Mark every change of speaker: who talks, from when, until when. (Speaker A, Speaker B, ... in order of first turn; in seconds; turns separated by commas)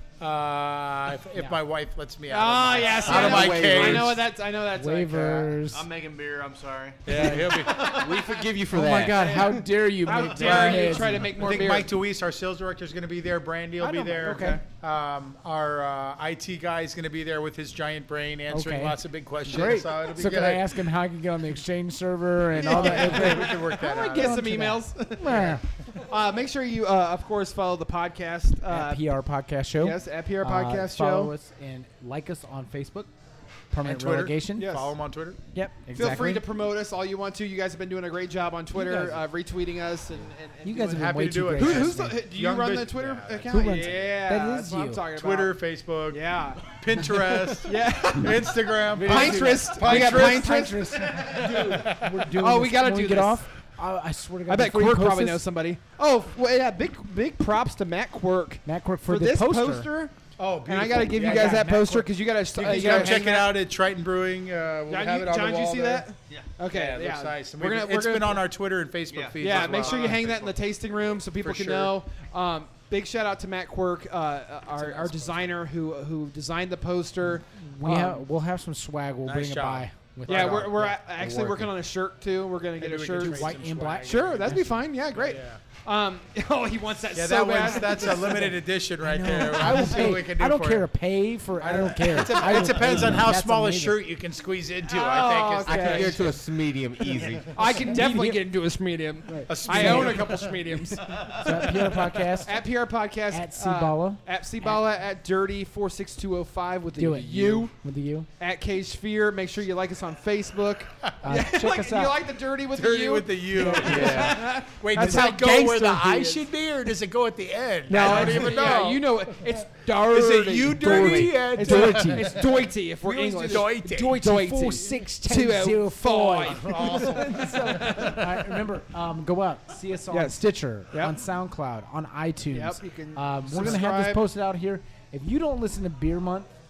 Speaker A: 0.2-4.2, Speaker B: 2.3-5.4, Speaker C: 3.0-4.2, Speaker D: 4.7-5.8, Speaker A: 5.1-5.6, Speaker E: 5.7-8.5, Speaker A: 7.0-8.1, Speaker C: 7.8-9.5, Speaker D: 8.7-11.6, Speaker B: 9.1-11.9, Speaker A: 10.4-20.8, Speaker D: 13.8-14.6, Speaker B: 14.2-14.6, Speaker D: 18.5-25.6, Speaker B: 22.6-29.1, Speaker A: 22.6-24.4, Speaker A: 25.3-25.6, Speaker D: 28.7-33.1, Speaker B: 29.8-31.3, Speaker D: 33.7-34.7, Speaker A: 33.8-35.4, Speaker B: 34.6-34.9, Speaker D: 35.5-36.5, Speaker B: 35.9-45.6, Speaker D: 38.7-39.2, Speaker D: 40.6-42.2, Speaker A: 40.8-43.9, Speaker D: 43.5-45.0, Speaker A: 45.1-52.3, Speaker B: 46.1-46.6, Speaker B: 47.6-53.4, Speaker D: 48.8-55.4, Speaker B: 54.5-60.1, Speaker D: 58.6-59.9, Speaker A: 60.4-66.1, Speaker B: 60.6-63.6, Speaker D: 61.1-62.1, Speaker D: 62.6-63.2, Speaker B: 64.9-68.4, Speaker A: 66.7-70.4, Speaker E: 69.1-71.2, Speaker B: 69.4-78.2, Speaker A: 71.4-72.0, Speaker A: 74.7-75.6, Speaker D: 77.8-80.7, Speaker A: 79.2-81.0, Speaker B: 80.3-88.5, Speaker C: 81.1-81.7, Speaker A: 82.8-85.6, Speaker D: 83.2-84.8, Speaker A: 87.1-90.9, Speaker D: 89.0-94.0, Speaker A: 91.6-96.3, Speaker B: 94.9-96.3, Speaker C: 95.6-97.8, Speaker B: 97.5-107.7, Speaker D: 97.8-98.5, Speaker D: 99.2-100.3, Speaker A: 99.5-101.6, Speaker D: 101.3-102.6, Speaker D: 103.3-104.8, Speaker D: 107.0-108.3, Speaker B: 108.4-116.4, Speaker D: 111.2-112.2, Speaker A: 112.7-125.0, Speaker D: 113.5-114.3, Speaker C: 113.8-114.5, Speaker D: 115.0-115.3, Speaker B: 117.9-128.6, Speaker D: 118.0-118.7, Speaker C: 120.9-121.3, Speaker D: 121.4-122.3, Speaker D: 124.1-136.5, Speaker A: 126.4-128.0, Speaker B: 130.1-131.2, Speaker B: 132.5-134.2